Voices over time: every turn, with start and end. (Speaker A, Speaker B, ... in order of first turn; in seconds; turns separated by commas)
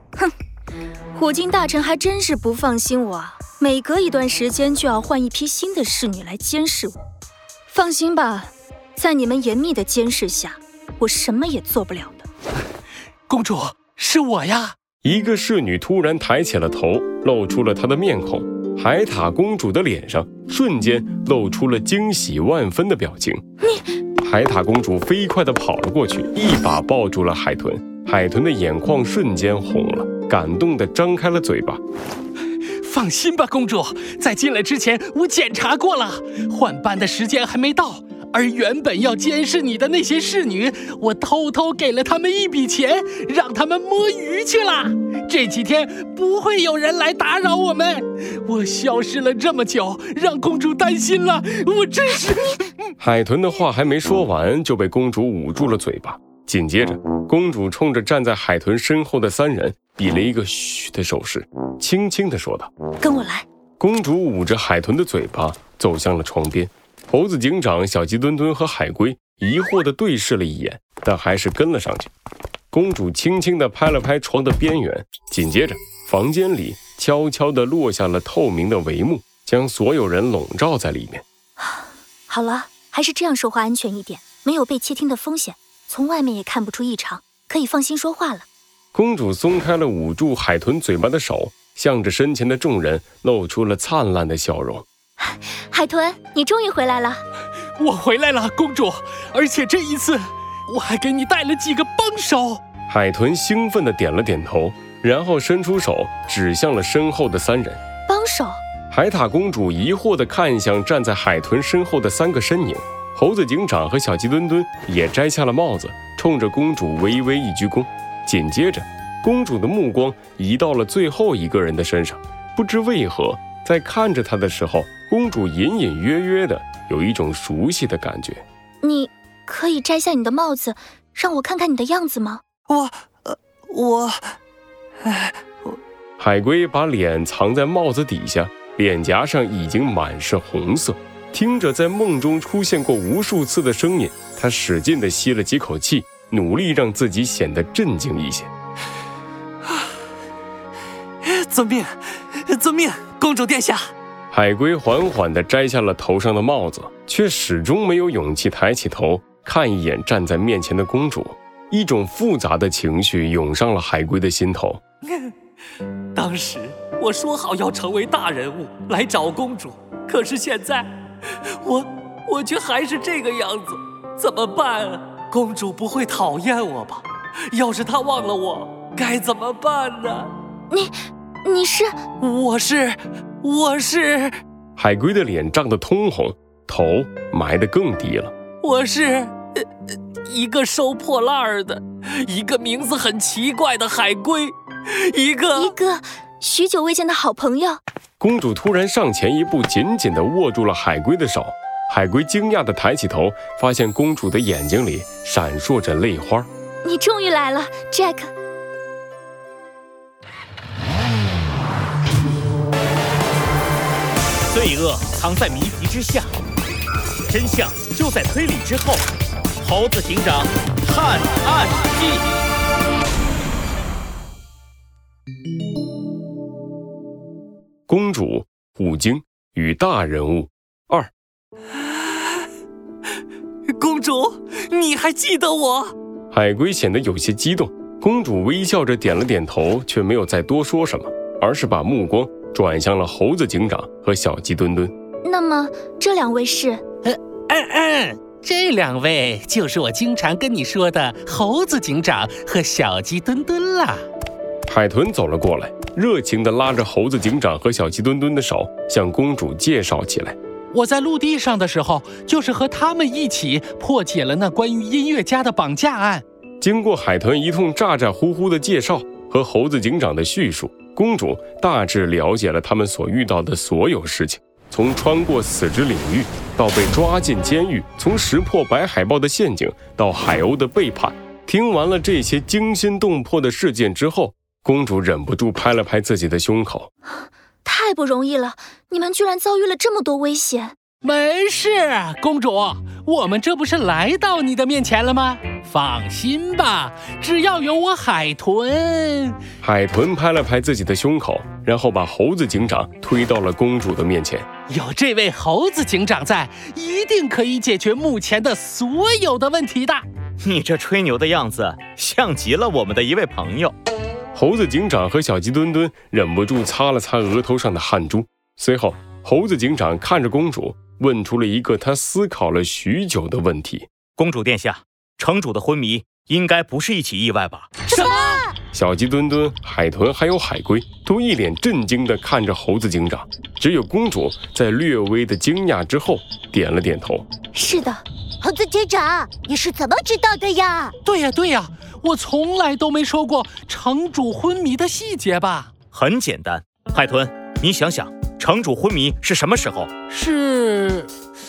Speaker A: 1.1-7.0, Speaker A: 7.7-12.2, Speaker B: 13.3-14.8, Speaker C: 15.0-23.4, Speaker C: 24.2-31.8, Speaker B: 32.8-52.9, Speaker C: 53.0-62.7, Speaker A: 63.0-63.5, Speaker C: 63.8-72.1, Speaker C: 72.7-81.2, Speaker A: 81.6-88.5, Speaker C: 88.9-94.8, Speaker A: 95.2-97.2, Speaker B: 97.8-102.6, Speaker C: 102.9-107.8, Speaker A: 108.1-108.6, Speaker C: 108.9-128.4, Speaker A: 128.8-132.4, Speaker C: 136.2-148.5, Speaker B: 151.3-151.9, Speaker B: 152.5-153.8, Speaker C: 154.3-164.8, Speaker D: 168.9-169.7, Speaker D: 170.2-170.8, Speaker D: 172.5-173.6, Speaker D: 174.2-174.6, Speaker D: 176.0-176.4, Speaker B: 176.2-176.6, Speaker B: 179.0-179.8, Speaker D: 179.8-180.2, Speaker A: 180.7-181.9, Speaker B: 182.2-184.3, Speaker C: 184.8-188.3, Speaker B: 188.6-189.3, Speaker B: 190.3-194.5, Speaker B: 195.1-195.6, Speaker A: 195.5-197.8, Speaker C: 198.2-206.5, Speaker A: 206.8-208.3, Speaker E: 214.5-216.3, Speaker E: 217.2-219.0, Speaker E: 219.6-222.3, Speaker C: 227.9-231.1, Speaker D: 234.9-235.2, Speaker C: 236.3-244.9, Speaker A: 245.2-246.8, Speaker B: 247.1-254.0, Speaker C: 254.7-260.4, Speaker B: 260.7-266.2, Speaker C: 266.6-286.9, Speaker A: 287.6-290.8, Speaker B: 291.0-299.4, Speaker C: 299.6-304.5, Speaker B: 304.7-310.1, Speaker E: 310.4-313.7, Speaker C: 314.3-323.9, Speaker E: 324.2-327.7, Speaker A: 328.0-328.4, Speaker F: 328.1-328.5, Speaker C: 328.7-337.3, Speaker A: 337.5-338.0, Speaker F: 338.4-340.9, Speaker B: 341.0-345.7, Speaker E: 345.9-349.9, Speaker B: 350.1-351.1